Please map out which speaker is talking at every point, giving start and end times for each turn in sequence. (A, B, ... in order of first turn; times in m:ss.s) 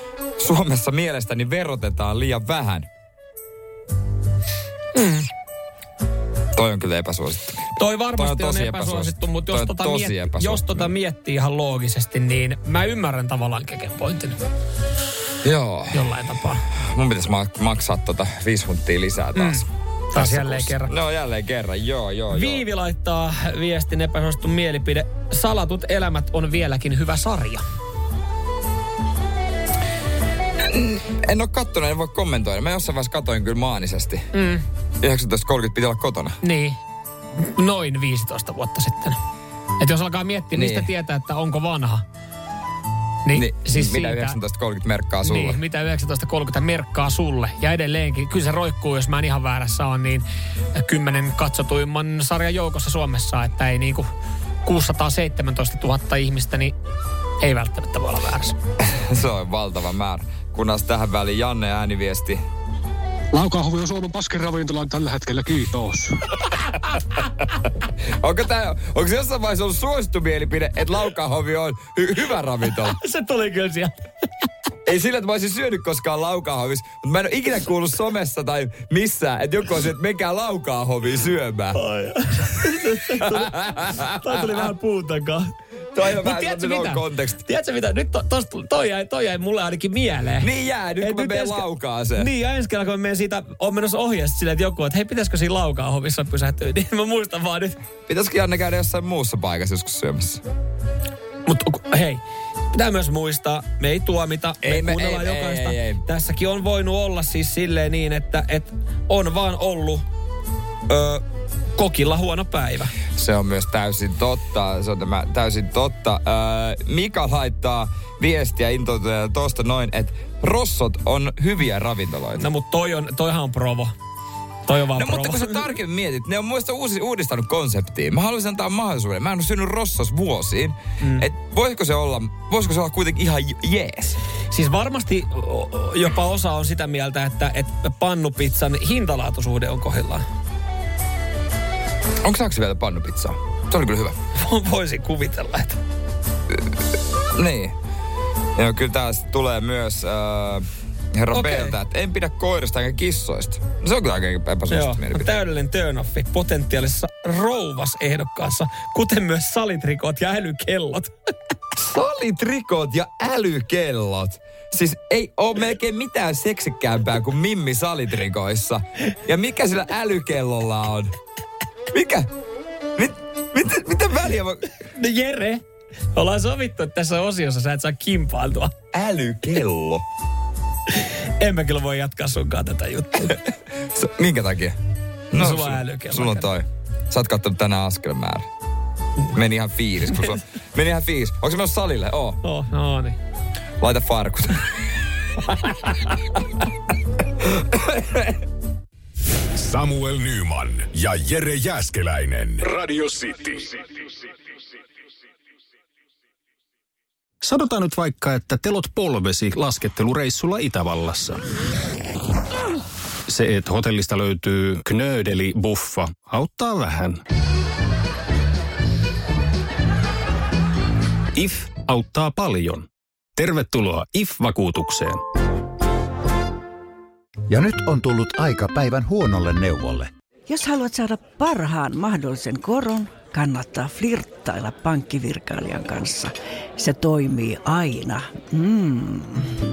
0:00.4-0:02.9 A
0:04.9-0:05.3 B
0:06.5-0:10.9 A
0:07.8-0:14.4 B
0:15.4-0:16.1 A
0:15.9-0:16.6 B
0:16.9-0:22.6 A
0:19.3-0:20.9 B
0:22.3-0:27.6 B
0:30.7-0:34.3 A
0:34.3-0:34.6 B
0:35.0-0:36.4 A
0:36.4-0:36.8 B
0:37.4-0:39.2 B
0:39.8-0:42.0 B
0:40.5-0:40.9 A
0:43.2-0:44.4 B
0:43.3-0:45.6 A
0:45.2-0:54.1 B
0:54.6-0:56.7 B
0:57.4-0:58.6 B
0:58.8-1:02.4 A
1:03.3-1:06.1 C
1:08.2-1:13.0 A
1:12.7-1:13.9 B
1:14.9-1:21.8 A
1:21.7-1:25.5 B
1:23.7-1:24.3 A
1:25.9-1:27.4 A
1:26.1-1:37.8 B
1:30.4-1:32.3 A
1:38.1-1:40.4 A
1:41.4-1:50.0 B
1:44.6-1:46.0 A
1:50.9-1:51.2 B
1:51.8-1:52.9 B
1:53.1-2:02.4 A
2:02.4-2:03.9 B
2:04.6-2:05.7 B
2:05.0-2:14.2 A
2:14.5-2:20.2 B
2:22.2-2:24.2 A
2:24.4-2:25.8 B
2:27.3-2:27.7 A
2:28.6-2:35.3 A
2:31.3-2:31.7 B
2:34.7-2:41.1 B
2:41.8-2:51.1 A
2:51.9-2:52.3 A
2:53.0-2:54.6 A
2:54.9-2:55.6 B
2:56.1-2:58.7 B
2:58.9-3:00.0 A
3:01.0-3:03.4 B
3:03.9-3:04.8 A
3:05.3-3:08.5 A
3:05.3-3:06.5 B
3:09.3-3:12.4 A
3:12.4-3:13.2 B
3:13.8-3:14.7 A
3:17.4-3:18.4 A
3:19.5-3:23.8 D
3:27.4-3:31.4 E
3:33.3-3:37.2 E
3:41.3-3:45.2 E
3:47.5-3:50.1 F
3:50.5-3:59.4 G